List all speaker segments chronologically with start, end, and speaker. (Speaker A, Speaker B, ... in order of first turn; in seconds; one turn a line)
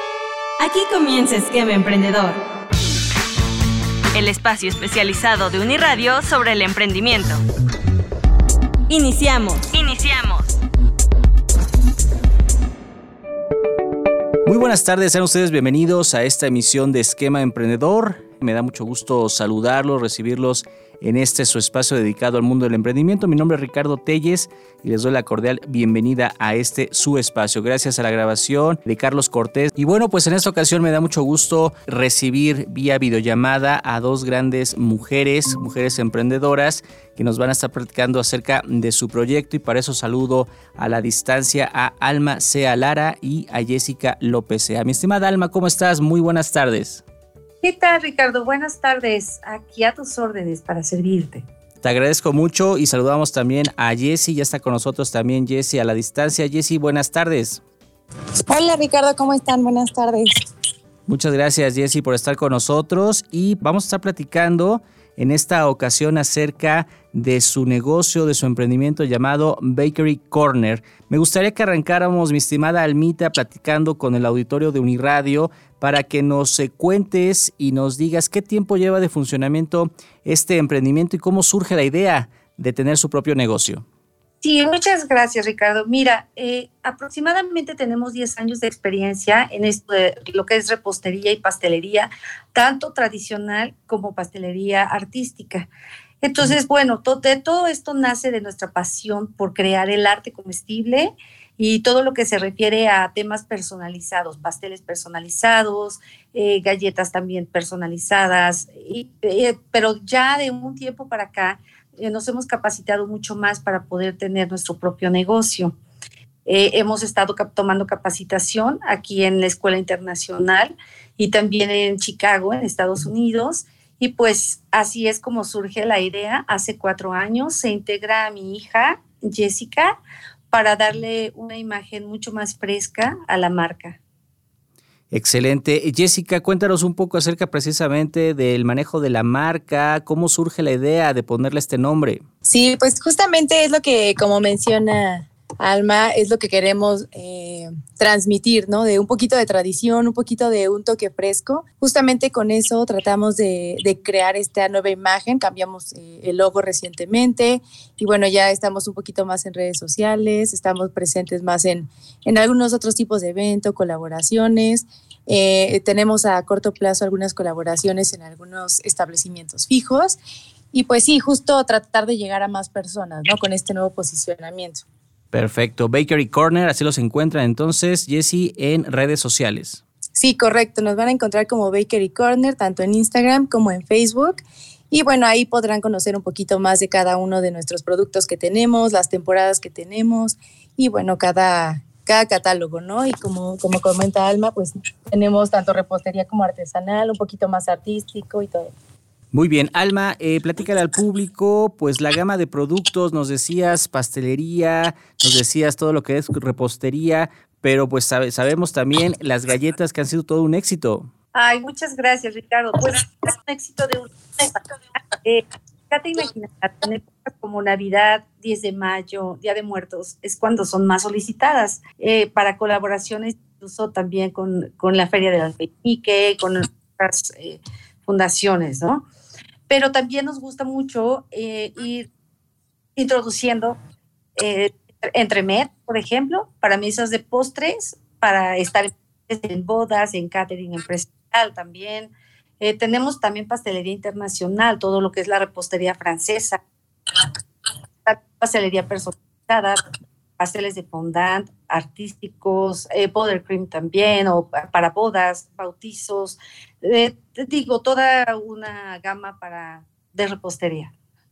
Speaker A: 0.6-2.4
Speaker A: 4.1-7.4
Speaker A: 8.9-10.5
Speaker B: 14.4-47.0
Speaker C: 47.6-51.5
Speaker B: 51.8-57.6
Speaker D: 58.4-60.4
Speaker B: 61.0-83.8
Speaker C: 84.4-95.7
Speaker C: 96.2-115.8
Speaker C: 116.5-129.9
Speaker C: 130.5-134.0
Speaker B: 135.1-142.2
Speaker D: 142.4-170.2
Speaker D: 170.7-174.8
Speaker B: 175.3-179.8
Speaker D: 180.1-198.7
Speaker B: 199.3-211.1
Speaker C: 211.3-229.0
Speaker C: 229.7-232.1
Speaker C: 232.9-233.8
Speaker C: 234.3-246.6
Speaker C: 248.1-249.8
Speaker C: 250.4-260.9